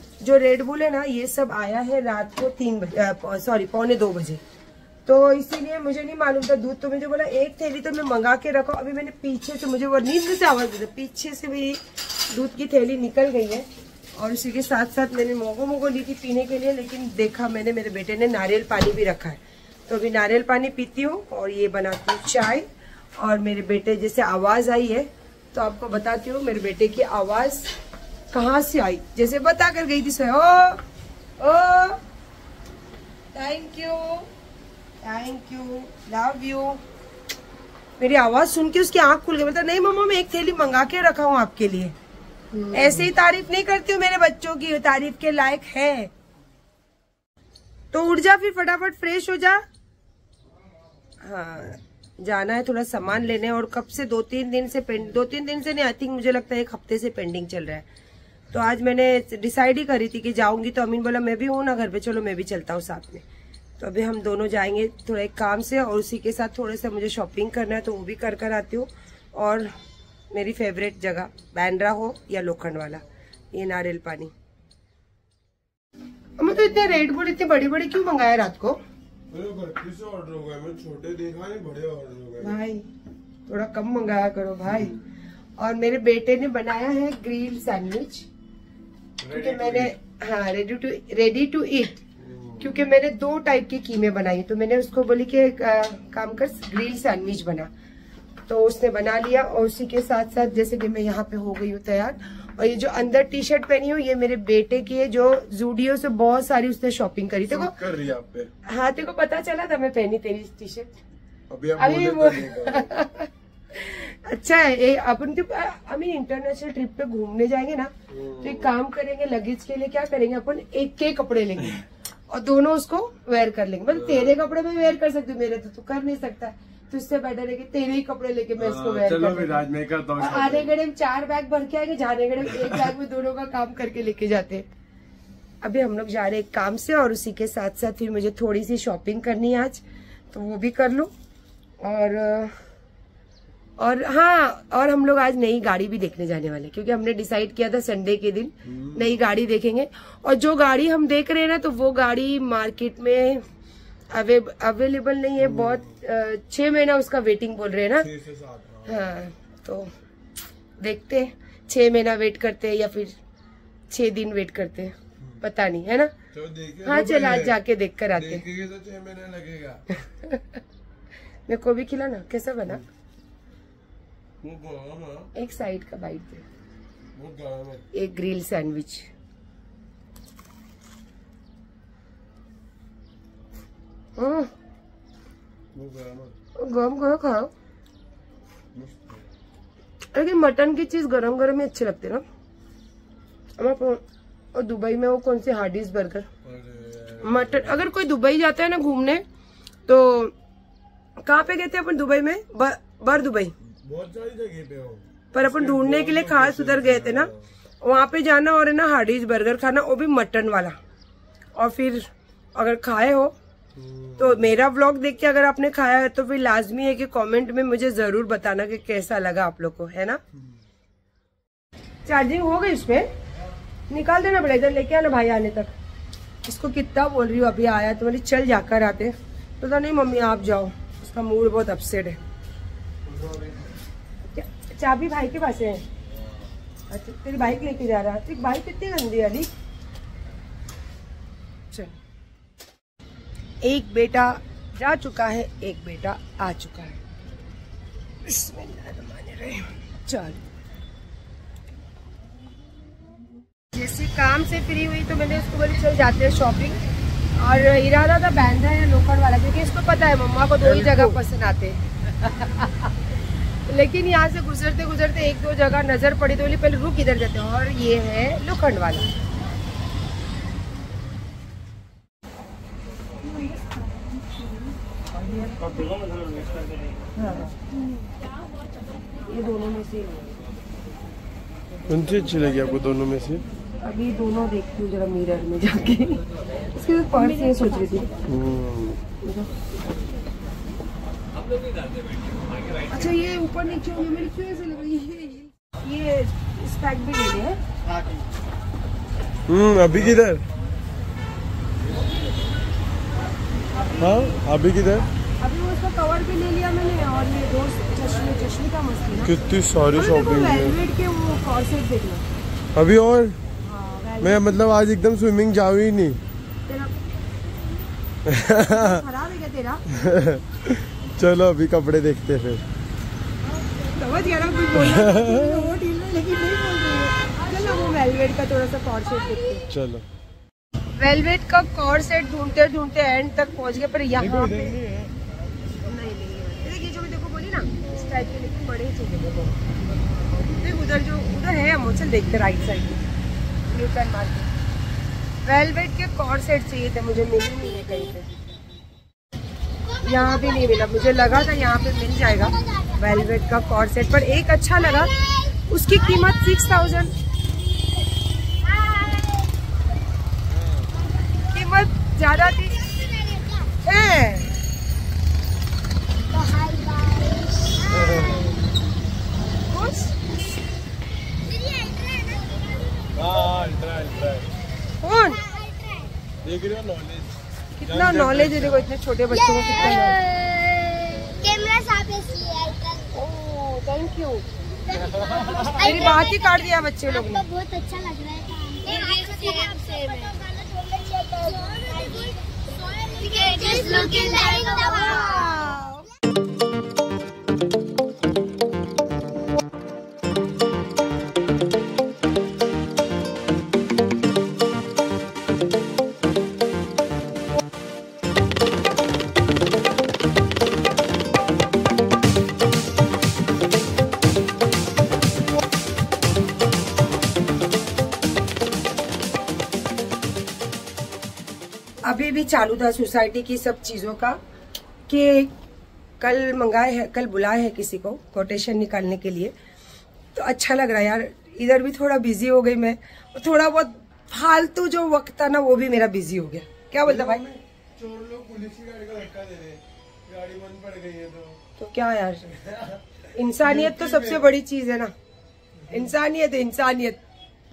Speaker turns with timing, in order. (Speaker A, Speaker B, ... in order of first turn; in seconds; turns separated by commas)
Speaker A: 0.2-4.4, Speaker A: 5.0-22.6, Speaker A: 23.2-27.7, Speaker A: 28.3-30.8, Speaker A: 31.4-32.0, Speaker A: 33.3-34.3, Speaker A: 35.0-36.8, Speaker A: 38.0-41.9, Speaker A: 42.7-46.1, Speaker A: 47.9-49.6, Speaker A: 51.2-57.9, Speaker A: 58.5-63.2, Speaker A: 63.8-69.7, Speaker A: 70.3-74.3, Speaker A: 76.4-78.8, Speaker B: 79.3-82.5, Speaker A: 82.4-82.9, Speaker A: 83.5-85.0, Speaker A: 85.6-88.3, Speaker B: 89.2-89.9, Speaker A: 89.3-92.0, Speaker B: 92.2-92.7, Speaker A: 92.6-97.7, Speaker A: 98.5-107.7, Speaker B: 107.5-108.5, Speaker A: 108.7-110.9, Speaker B: 111.5-112.9, Speaker A: 111.8-129.6, Speaker B: 118.1-118.7, Speaker B: 123.9-124.4, Speaker B: 128.6-130.7, Speaker A: 130.2-134.7, Speaker A: 135.6-141.1, Speaker A: 141.8-142.6, Speaker A: 143.8-153.4, Speaker B: 148.7-149.1, Speaker A: 154.1-158.1, Speaker B: 155.4-155.8, Speaker B: 158.0-159.1, Speaker A: 158.8-159.9, Speaker A: 160.8-163.1, Speaker A: 163.9-166.1, Speaker B: 166.3-167.6, Speaker A: 166.8-168.4, Speaker B: 168.1-169.8, Speaker A: 170.0-170.4, Speaker A: 171.5-172.8, Speaker B: 174.4-175.3, Speaker A: 175.3-176.4, Speaker B: 177.1-177.8, Speaker A: 177.9-179.1, Speaker A: 184.2-184.5, Speaker B: 185.7-186.3, Speaker A: 186.6-187.5, Speaker B: 188.7-189.2, Speaker A: 190.1-192.2, Speaker A: 193.6-194.0, Speaker A: 194.5-196.3, Speaker B: 196.4-197.8, Speaker A: 197.2-199.2, Speaker A: 199.9-200.3, Speaker A: 201.2-203.5, Speaker B: 203.8-207.4, Speaker A: 205.3-207.3, Speaker A: 207.8-210.8, Speaker A: 211.6-213.3, Speaker B: 213.8-214.5, Speaker A: 214.2-220.2, Speaker A: 222.0-223.1, Speaker A: 223.9-225.7, Speaker A: 226.4-232.2, Speaker B: 233.1-233.4, Speaker A: 234.3-235.8, Speaker A: 236.9-239.5, Speaker A: 243.6-247.0, Speaker A: 248.2-250.4, Speaker A: 253.7-256.8, Speaker A: 257.4-262.9, Speaker B: 260.6-261.1, Speaker A: 263.6-269.1, Speaker A: 277.1-277.6, Speaker A: 279.3-280.3, Speaker B: 281.9-283.4, Speaker A: 283.8-288.1, Speaker B: 288.3-289.0, Speaker A: 289.2-289.5, Speaker A: 292.9-297.6, Speaker B: 299.5-300.4, Speaker A: 303.7-304.4, Speaker B: 304.0-305.1, Speaker A: 305.4-309.4, Speaker B: 309.2-310.8, Speaker A: 309.9-312.3, Speaker B: 312.7-313.4, Speaker A: 313.6-314.5, Speaker B: 314.2-316.2, Speaker A: 316.7-316.9, Speaker B: 318.2-318.9, Speaker A: 318.6-319.8, Speaker B: 319.9-322.6, Speaker A: 323.8-329.7, Speaker B: 324.8-325.6, Speaker B: 329.7-330.0, Speaker A: 331.0-334.8, Speaker B: 334.2-335.1, Speaker A: 335.7-339.6, Speaker B: 337.8-338.2, Speaker A: 340.4-343.0, Speaker A: 343.7-344.5, Speaker A: 345.4-348.3, Speaker C: 349.9-351.5, Speaker A: 350.0-355.1, Speaker C: 352.4-354.1, Speaker C: 354.8-355.5, Speaker A: 355.7-357.1, Speaker C: 356.0-357.0, Speaker C: 358.6-359.5, Speaker A: 361.5-362.8, Speaker C: 362.8-363.7, Speaker A: 363.8-364.5, Speaker C: 366.3-368.4, Speaker B: 367.9-368.5, Speaker A: 369.7-370.1, Speaker C: 371.4-373.1, Speaker B: 373.1-374.5, Speaker A: 375.0-375.4, Speaker C: 375.3-376.1, Speaker B: 376.4-378.8, Speaker A: 377.8-380.2, Speaker C: 379.3-383.1, Speaker A: 383.1-384.4, Speaker C: 384.9-395.8, Speaker A: 385.8-387.4, Speaker A: 388.9-390.1, Speaker A: 393.3-396.0, Speaker A: 422.0-424.4, Speaker A: 425.1-425.5, Speaker A: 426.2-429.5, Speaker A: 430.3-437.4, Speaker B: 437.0-441.6, Speaker A: 441.8-442.5, Speaker B: 442.6-443.0, Speaker A: 443.3-445.1, Speaker B: 443.6-444.4, Speaker A: 445.9-447.2